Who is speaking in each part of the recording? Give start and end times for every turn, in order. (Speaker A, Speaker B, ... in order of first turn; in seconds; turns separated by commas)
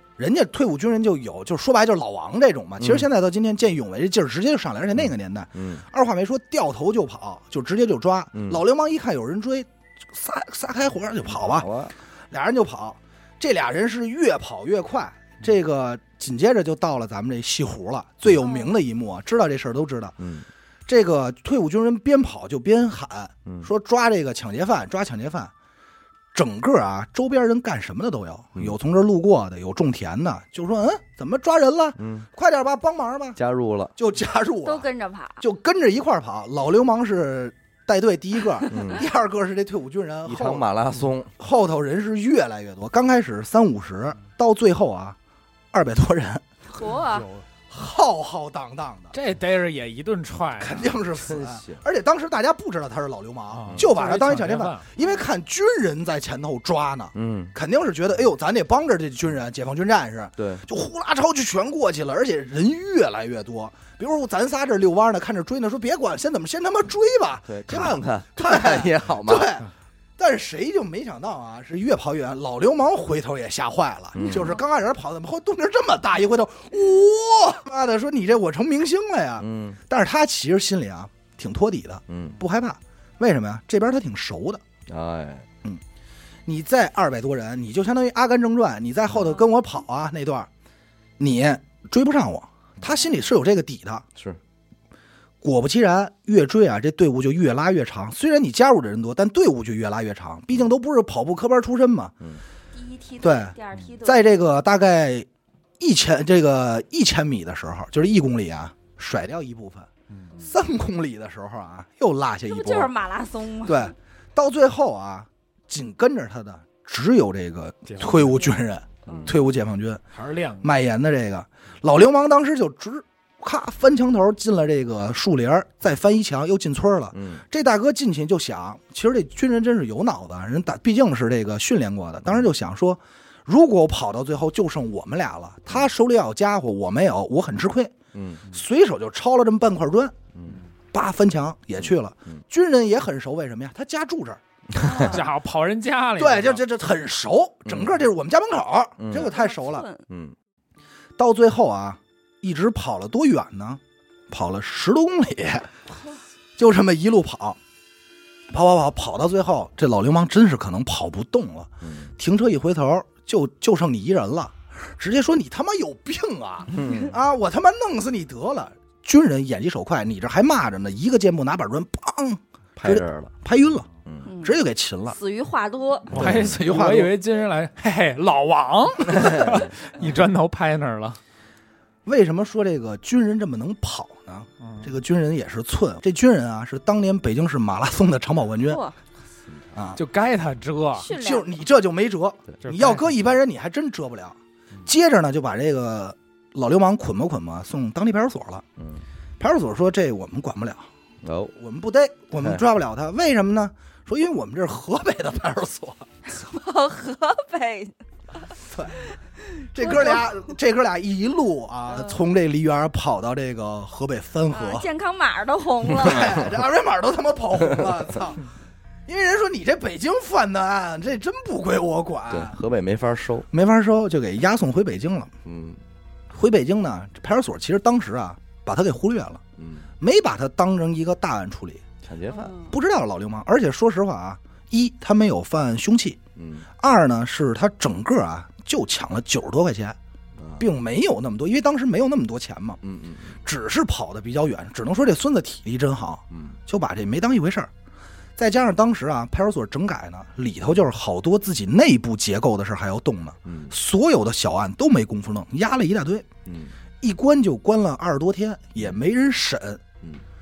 Speaker A: 0.2-11.7, Speaker B: 2.8-3.1, Speaker B: 5.5-5.8, Speaker B: 8.3-8.6, Speaker B: 11.3-11.9, Speaker A: 12.3-20.1, Speaker C: 18.4-18.7, Speaker B: 20.2-20.5, Speaker A: 20.9-25.5, Speaker A: 26.3-33.4, Speaker B: 32.0-32.3, Speaker B: 33.4-33.9, Speaker A: 34.0-34.9, Speaker C: 34.6-35.4, Speaker A: 35.4-40.6, Speaker B: 38.7-39.0, Speaker B: 40.2-41.3, Speaker A: 41.4-45.2, Speaker A: 45.7-46.4, Speaker C: 46.7-47.3, Speaker D: 46.8-47.5, Speaker A: 47.7-49.1, Speaker D: 49.1-50.9, Speaker A: 50.6-84.6, Speaker B: 51.2-51.8, Speaker D: 53.5-54.9, Speaker B: 57.1-57.5, Speaker B: 60.4-60.6, Speaker B: 67.5-69.6, Speaker B: 74.1-74.6, Speaker C: 74.2-74.6, Speaker B: 79.4-79.8, Speaker B: 82.1-82.4, Speaker B: 84.9-85.5, Speaker A: 86.5-90.5, Speaker A: 91.2-94.0, Speaker A: 95.4-102.1, Speaker C: 102.7-104.4, Speaker A: 103.2-105.3, Speaker A: 105.8-112.9, Speaker D: 110.1-110.4, Speaker C: 112.5-113.9, Speaker A: 113.6-120.0, Speaker D: 117.8-118.5, Speaker B: 119.0-119.3, Speaker D: 120.1-120.7, Speaker A: 120.6-137.9, Speaker B: 127.1-127.4, Speaker B: 138.1-138.4, Speaker A: 138.5-140.1, Speaker B: 140.3-140.6, Speaker A: 140.9-144.4, Speaker B: 141.8-142.4, Speaker B: 144.7-145.2, Speaker C: 144.8-145.2, Speaker D: 145.1-146.6, Speaker A: 146.2-149.9, Speaker B: 147.6-148.0, Speaker B: 149.0-149.3, Speaker C: 149.1-150.0, Speaker B: 150.1-150.3, Speaker A: 151.2-155.7, Speaker A: 156.6-157.6, Speaker A: 158.5-173.9, Speaker B: 161.8-162.1, Speaker B: 166.7-167.1, Speaker B: 172.8-173.3, Speaker C: 174.2-176.2, Speaker A: 174.4-175.2, Speaker D: 176.1-181.2, Speaker B: 176.1-176.6, Speaker A: 176.2-177.1, Speaker B: 179.2-179.7, Speaker A: 182.1-188.8, Speaker D: 184.6-184.9, Speaker C: 188.7-189.0, Speaker A: 189.7-190.0, Speaker D: 189.9-191.1, Speaker C: 191.0-191.6, Speaker A: 191.1-198.6, Speaker D: 192.6-193.2, Speaker B: 198.8-199.0, Speaker A: 199.4-200.8, Speaker B: 201.2-201.5, Speaker A: 201.6-206.1, Speaker C: 206.2-208.5, Speaker A: 208.7-209.0, Speaker C: 209.6-210.4, Speaker A: 209.7-214.9, Speaker C: 211.9-212.2, Speaker C: 214.5-216.5, Speaker A: 215.9-218.4, Speaker A: 219.1-222.5, Speaker B: 222.3-223.5, Speaker A: 223.5-225.3, Speaker B: 225.4-225.8, Speaker A: 226.3-229.4, Speaker B: 229.6-229.9, Speaker A: 230.0-231.8, Speaker B: 232.0-232.5, Speaker C: 232.3-232.8, Speaker A: 232.7-236.2, Speaker B: 236.3-236.7, Speaker A: 236.8-239.9, Speaker B: 240.4-240.7, Speaker A: 240.6-242.8, Speaker B: 242.8-243.3, Speaker A: 243.4-247.7, Speaker B: 246.3-246.6, Speaker A: 248.4-256.3, Speaker B: 253.4-253.7, Speaker B: 256.4-256.7, Speaker A: 257.0-259.8